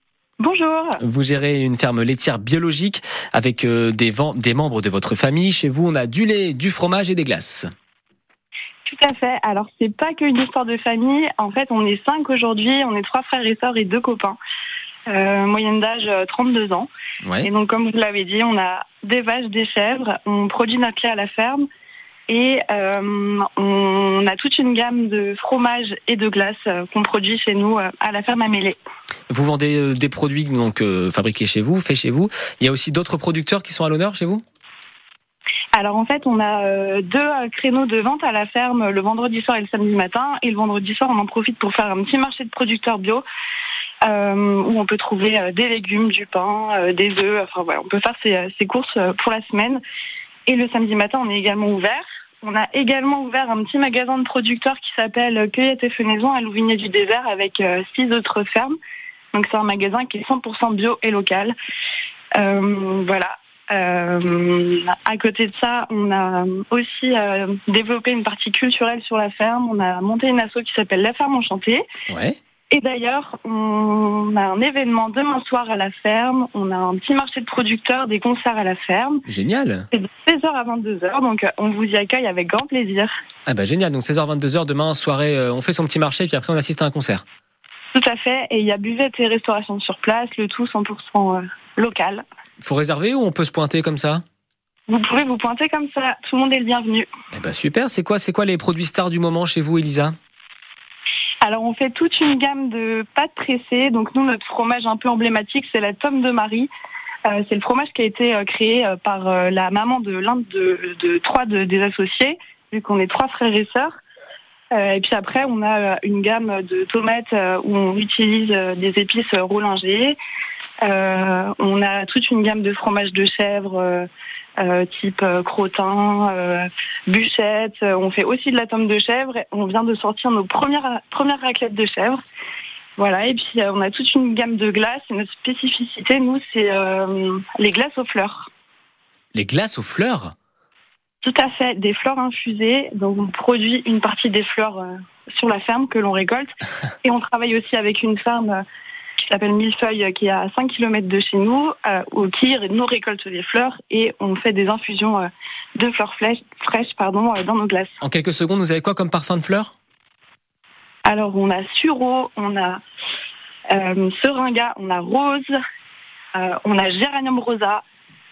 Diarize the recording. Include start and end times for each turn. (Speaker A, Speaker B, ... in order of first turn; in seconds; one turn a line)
Speaker A: 0.4-1.0
Speaker B: 1.0-7.7
Speaker A: 8.9-14.4
Speaker A: 15.1-16.9
Speaker A: 17.4-21.6
Speaker A: 22.3-28.8
Speaker B: 29.3-34.4
Speaker A: 35.7-43.2
Speaker A: 44.0-49.8
Speaker A: 50.5-58.8
Speaker A: 59.3-61.5
Speaker A: 62.4-71.8
Speaker B: 72.1-72.4
Speaker A: 72.7-79.2
Speaker B: 79.3-79.9
Speaker A: 79.9-83.1
Speaker B: 83.5-87.2
Speaker A: 87.9-92.2
Speaker B: 92.6-94.2
Speaker A: 94.9-97.1
Speaker B: 97.3-100.1
Speaker A: 101.4-106.7
Speaker A: 107.2-113.9
Speaker A: 114.7-120.2
Speaker A: 120.8-124.1
Speaker A: 124.6-132.2
Speaker A: 133.0-138.5
Speaker B: 139.3-140.3
Speaker A: 141.2-148.6
Speaker A: 149.2-158.0
Speaker B: 158.0-159.7
Speaker A: 161.0-162.8
Speaker A: 163.7-165.6
Speaker A: 166.3-167.8